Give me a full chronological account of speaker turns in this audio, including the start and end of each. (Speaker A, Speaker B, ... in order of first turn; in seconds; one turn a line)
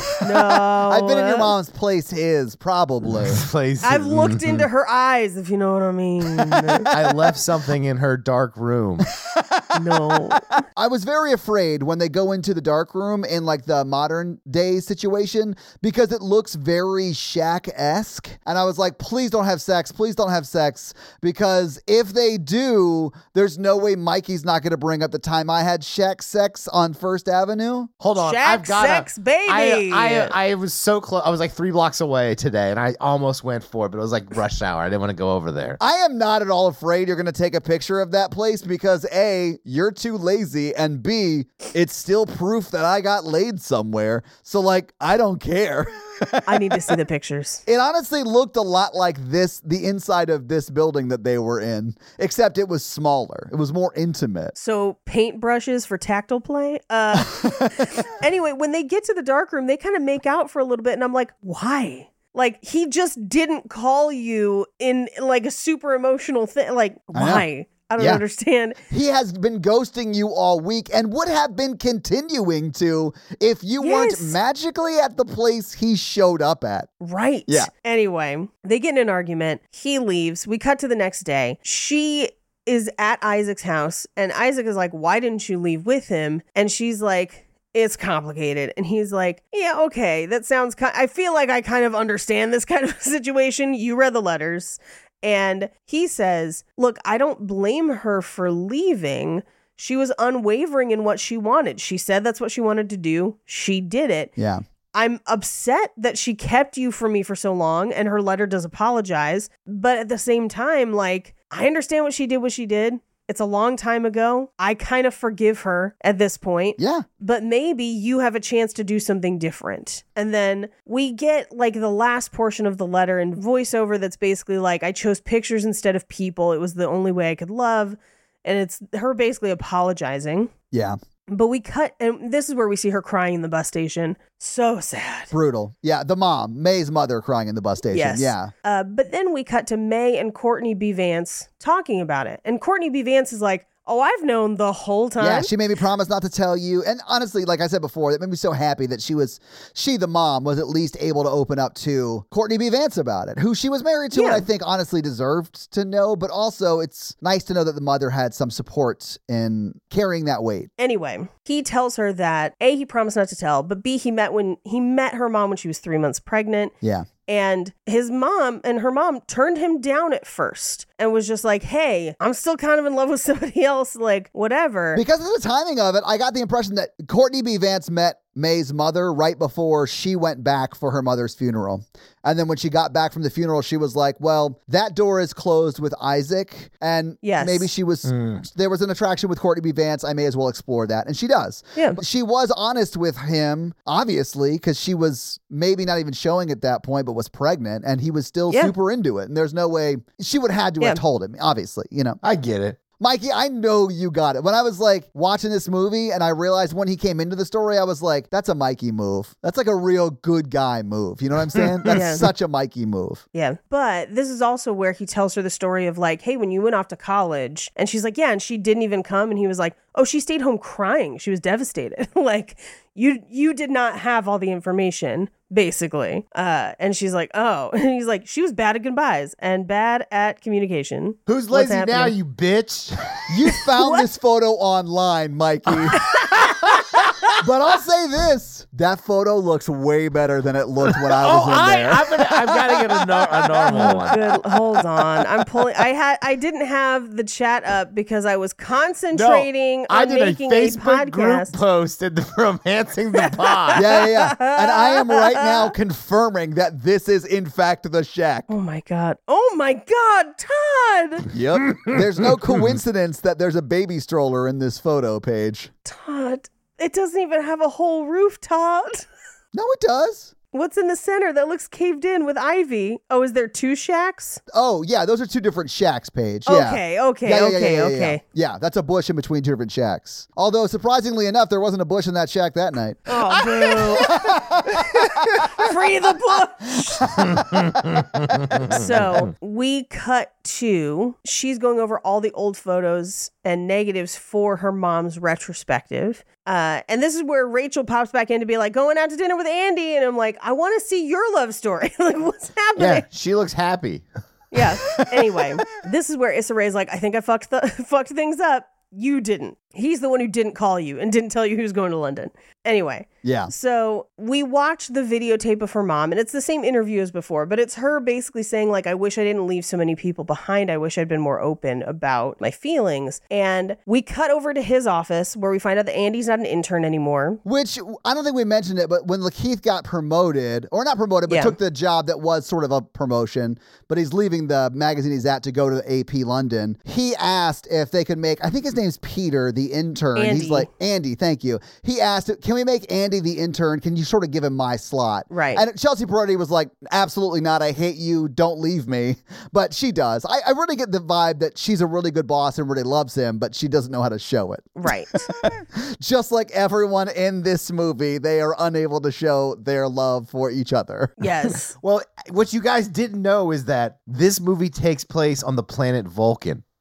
Speaker A: 0.2-1.5
Speaker B: 0.9-3.4
Speaker C: 3.3-4.7
Speaker A: 3.8-6.9
Speaker C: 6.9-9.1
Speaker A: 9.7-10.4
Speaker B: 10.8-27.9
Speaker C: 28.0-35.8
Speaker A: 28.2-30.4
Speaker B: 35.8-46.9
Speaker A: 46.5-47.6
Speaker B: 47.7-54.5
Speaker A: 54.5-68.8
Speaker B: 57.2-57.7
Speaker B: 67.1-67.5
Speaker B: 68.9-76.9
Speaker A: 73.8-74.3
Speaker A: 77.0-104.3
Speaker B: 104.4-104.6
Speaker A: 104.9-130.5
Speaker B: 116.8-117.1
Speaker B: 130.7-131.0
Speaker A: 131.3-135.3
Speaker B: 135.3-138.5
Speaker A: 137.9-145.5
Speaker B: 145.2-160.7
Speaker A: 154.1-154.4
Speaker A: 160.8-166.7
Speaker B: 166.8-167.1
Speaker A: 167.3-175.0
Speaker B: 174.9-202.2
Speaker A: 187.2-187.7
Speaker C: 188.1-188.4
Speaker C: 202.2-202.8
Speaker B: 203.0-213.2
Speaker A: 211.9-212.3
Speaker A: 213.3-232.2
Speaker C: 231.3-233.3
Speaker B: 233.3-236.0
Speaker A: 233.8-234.1
Speaker C: 235.9-237.0
Speaker A: 236.0-237.3
Speaker B: 237.4-242.8
Speaker C: 241.1-244.5
Speaker B: 243.7-243.9
Speaker A: 243.7-251.6
Speaker C: 249.1-253.9
Speaker A: 253.3-255.7
Speaker B: 253.8-258.5
Speaker A: 258.5-261.3
Speaker B: 261.3-265.7
Speaker A: 265.9-269.1
Speaker B: 269.5-270.3
Speaker A: 270.5-274.4
Speaker B: 274.5-285.9
Speaker A: 276.5-278.2
Speaker A: 283.1-287.1
Speaker B: 287.0-287.8
Speaker C: 288.2-288.9
Speaker A: 288.6-303.1
Speaker C: 302.8-304.1
Speaker A: 304.5-327.4
Speaker B: 313.2-313.5
Speaker B: 327.4-361.2
Speaker A: 331.3-331.6
Speaker A: 340.2-340.7
Speaker A: 345.3-345.6
Speaker A: 354.8-355.2
Speaker A: 361.2-361.7
Speaker C: 361.8-366.6